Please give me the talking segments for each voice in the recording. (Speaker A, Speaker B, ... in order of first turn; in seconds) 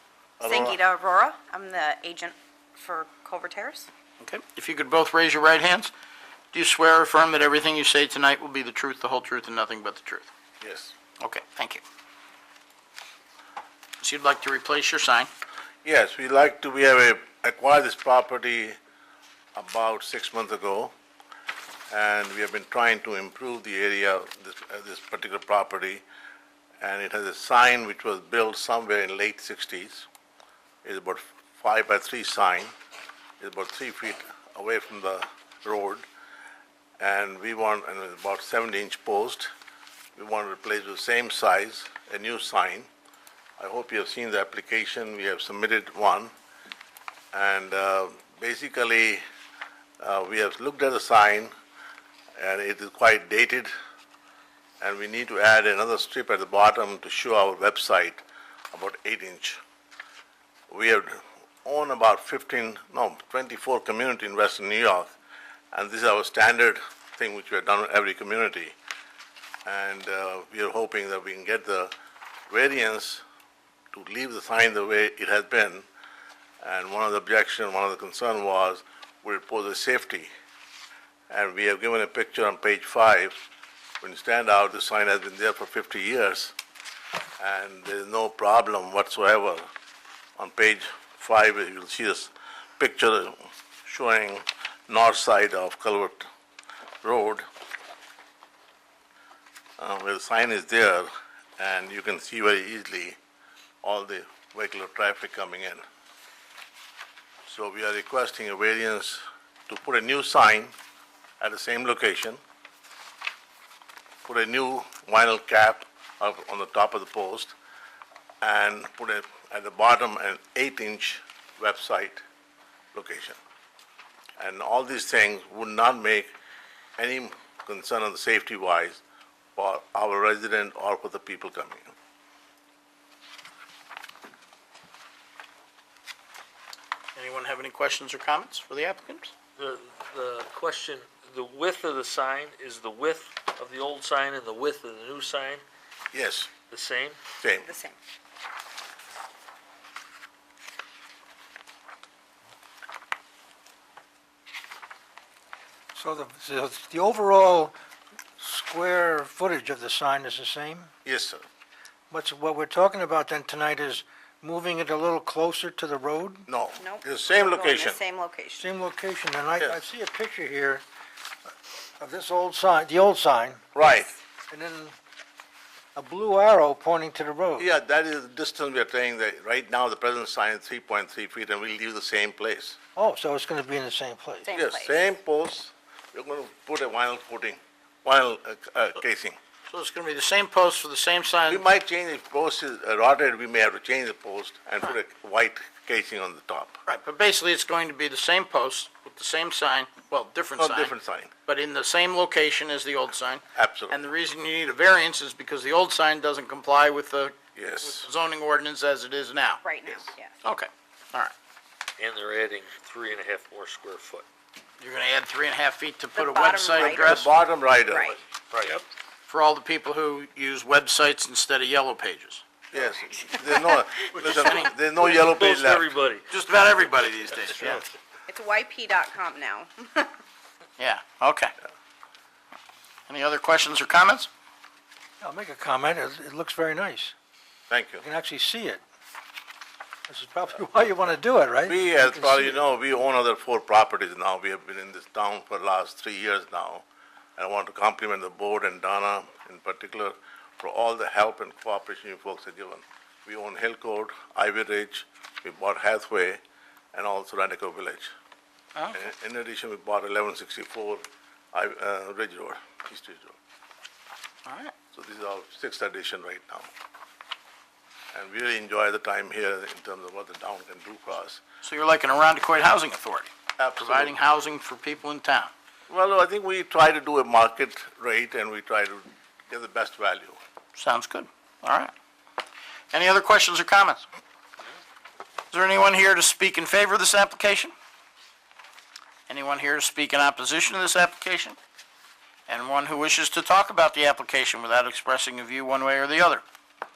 Speaker A: 0.4-0.8, 10.6-10.9, 15.8-18.8, 19.6-20.9, 21.9-26.0, 26.8-30.1, 30.8-32.7, 33.4-36.1, 37.0-39.5, 40.2-42.9, 43.6-46.3, 47.3-49.2, 50.0-51.5, 52.4-53.7, 54.8-58.2, 58.7-59.6, 60.7-65.2, 65.7-68.8, 69.7-71.9, 72.5-73.2, 73.9-75.9, 76.6-80.3, 81.3-83.4, 84.0-86.5, 87.4-89.7, 90.4-96.3, 97.0-97.5, 99.8-103.2, 103.8-105.8, 107.5-110.7, 111.4-112.4, 114.2-117.5, 118.4-122.2, 122.9-123.4, 124.4-126.3, 127.0-129.0, 129.6-131.9, 146.1-146.5, 147.4-147.7, 161.1-161.4, 166.5-168.0, 173.8-174.2, 177.6-182.8, 184.5-189.4, 191.5-196.8, 200.6-201.3, 203.6-204.0, 207.6-208.1, 216.8-218.8, 222.7-225.9, 237.7-238.1, 241.7-246.8, 247.4-256.4, 256.9-258.1, 258.9-263.4, 264.9-266.7, 268.1-271.4, 273.6-274.2, 275.9-280.4
Speaker B: 0.4-3.9, 147.6-148.0, 166.8-168.7, 184.4-185.0, 209.6-210.3, 216.2-217.3, 217.8-218.2, 224.3-224.7, 228.3-230.1
Speaker C: 4.2-5.9, 6.5-10.3, 11.2-11.8, 14.0-15.3, 137.2-139.3, 189.7-191.6, 196.9-200.9, 201.5-209.6, 210.4-211.3, 214.8-217.3, 219.3-222.4, 224.2-224.7, 226.3-227.8, 230.8-231.5, 233.1-234.3, 264.5-264.7, 271.6-275.5, 280.8-281.9, 282.9-284.1, 285.5-287.7, 289.3-291.6, 292.5-296.4
Speaker D: 139.6-145.6, 146.7-147.2, 212.0-214.2, 225.0-226.2, 227.6-227.8
Speaker E: 155.9-157.7, 158.4-160.9, 162.1-166.5, 168.6-170.8, 172.0-173.7, 174.5-174.9, 176.0-177.7, 183.0-184.6, 235.2-237.1, 238.0-238.8, 240.1-242.6